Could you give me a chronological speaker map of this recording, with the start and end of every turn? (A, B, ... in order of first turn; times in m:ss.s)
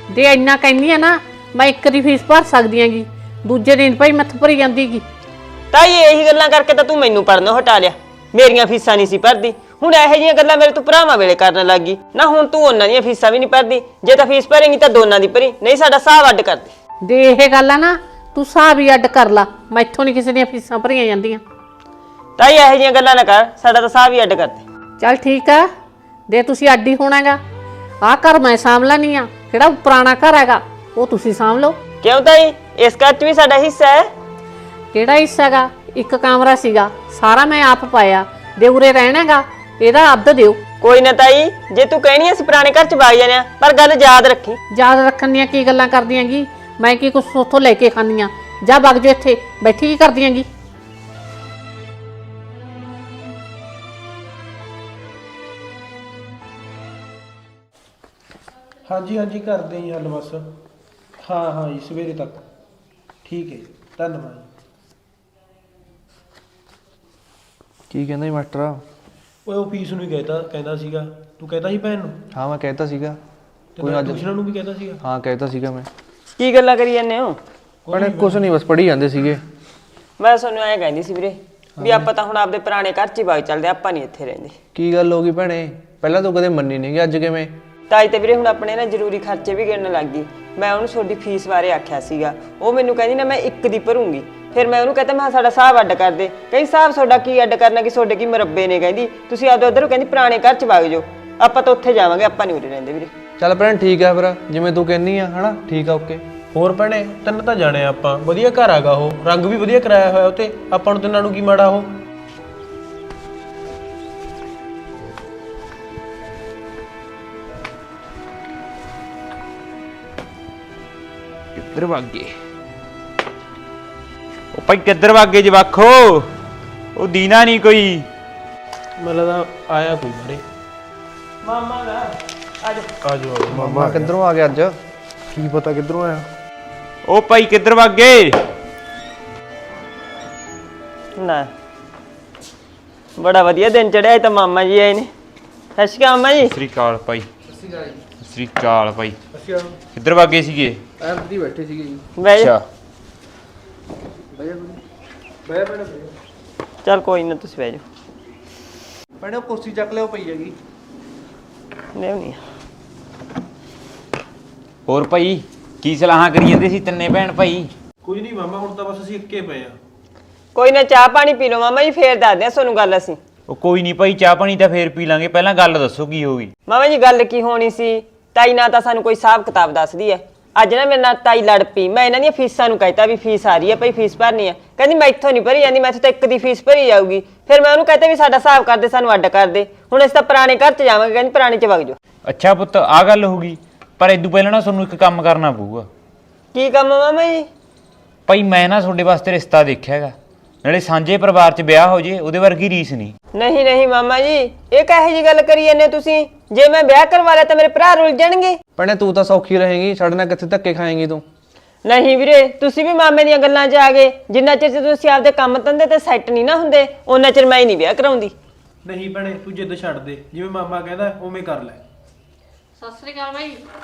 0:00.1-0:05.0 A
0:05.7-0:16.7 B
0:17.0-0:21.4 A
0:22.4-0:24.6 B
0:25.0-0:25.7 A
0:26.3-0:27.4 A
0:28.0-0:31.8 A
0:32.0-0:34.1 B
0:34.9-0:40.6 A
0:40.8-0:44.6 B
0:44.7-0:50.5 A
0:58.9-1:00.5 C
1:01.2-1:02.4 C
1:03.2-1:04.5 C
1:07.9-1:08.8 D
1:09.4-1:12.2 C
1:12.3-1:13.2 D
1:13.8-1:15.0 C
1:13.8-1:14.2 D
1:15.0-1:15.9 D
1:16.4-1:17.4 B
1:17.8-1:18.5 C
1:17.9-1:19.4 D
1:20.2-1:24.5 B
1:21.8-1:22.1 D
1:24.8-1:27.6 D
1:27.9-1:43.1 B
1:43.4-1:46.2 D
1:46.5-1:52.0 C
2:01.6-2:02.3 E
2:04.5-2:06.3 E
2:07.0-2:08.0 E
2:09.0-2:10.4 C
2:11.4-2:12.1 B
2:13.0-2:14.1 C
2:13.5-2:14.8 D
2:15.3-2:16.2 D
2:17.1-2:18.4 E
2:21.2-2:21.5 B
2:23.2-2:25.1 B
2:25.8-2:26.5 B
2:26.4-2:27.3 E
2:27.5-2:28.0 D
2:28.2-2:29.2 E
2:29.3-2:29.8 C
2:29.9-2:30.8 E
2:31.0-2:32.0 D
2:32.2-2:32.5 B
2:32.3-2:32.6 E
2:34.3-2:34.8 D
2:36.8-2:37.8 B
2:39.2-2:40.5 D
2:42.0-2:42.4 B
2:44.9-2:47.7 E
2:48.0-2:49.8 C
2:50.5-2:53.2 B
2:53.5-2:56.5 E
2:56.7-3:12.0 B
3:12.2-3:15.9 E
3:16.5-3:17.5 B
3:18.3-3:23.1 E
3:23.3-3:28.6 B
3:28.8-3:31.2 D
3:31.8-3:38.3 B
3:38.8-3:41.8 C
3:42.8-3:43.6 A